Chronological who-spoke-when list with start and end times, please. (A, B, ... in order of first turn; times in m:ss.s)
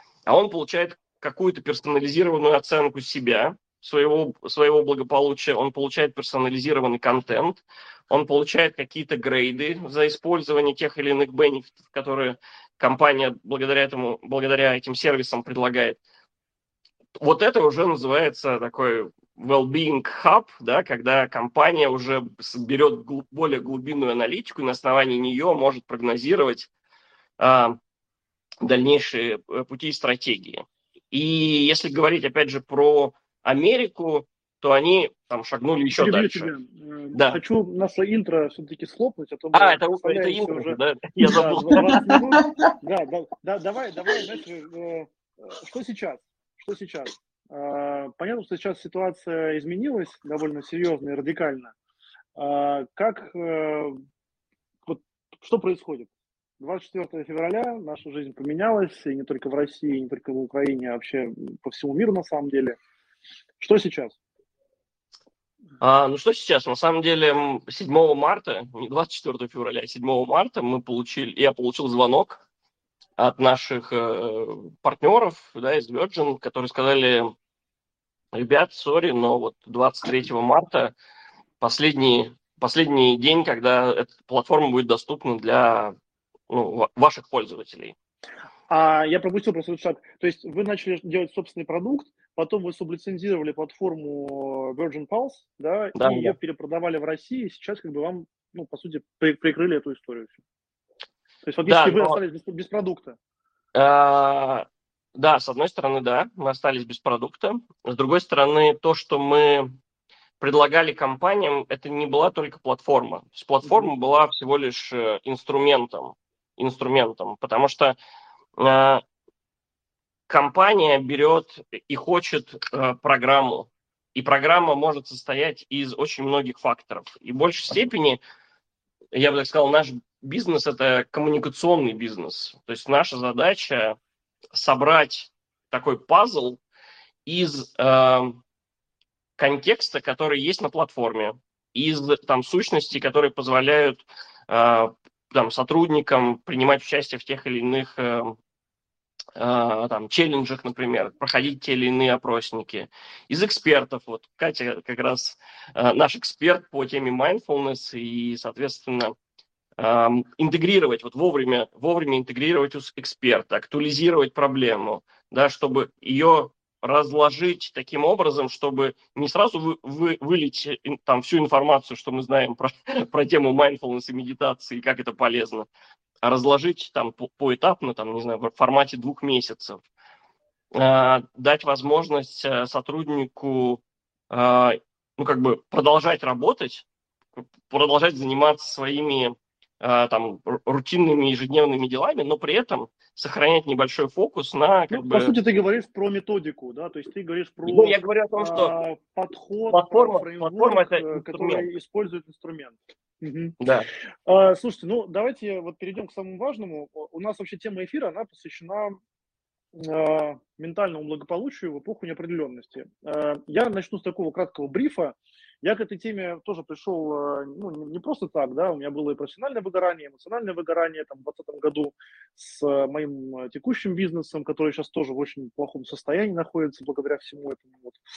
0:00.3-0:16.0 A
0:17.2-0:26.7 A
0:27.4-0:27.8 A
0:28.6-0:36.5 A
0:36.0-0:51.7 B
0:37.1-0:37.4 A
0:39.5-0:42.1 A
0:52.4-0:54.0 B
0:54.9-1:02.8 B
1:03.6-1:04.2 B
1:05.8-1:12.4 A
1:13.2-1:17.3 A
1:18.3-1:20.9 A
1:21.6-1:26.0 A
1:26.5-1:28.0 A
1:28.7-1:40.4 B
1:36.0-1:36.4 A
1:41.4-1:43.2 B
1:41.7-1:42.2 A
1:43.8-1:49.8 A
1:50.4-1:58.0 A
1:58.6-1:59.0 A
2:00.3-2:08.2 A
2:09.1-2:14.0 A
2:14.5-2:16.6 A
2:17.3-2:18.4 A
2:19.4-2:28.4 A
2:29.4-2:39.2 A
2:39.8-2:55.7 A
2:56.2-2:59.8 A
3:00.7-3:06.8 A
3:07.4-3:15.3 A
3:14.9-3:23.6 B
3:17.6-3:18.7 A
3:19.7-3:21.7 A
3:23.6-3:23.9 A
3:24.3-3:29.0 B
3:29.8-3:48.0 B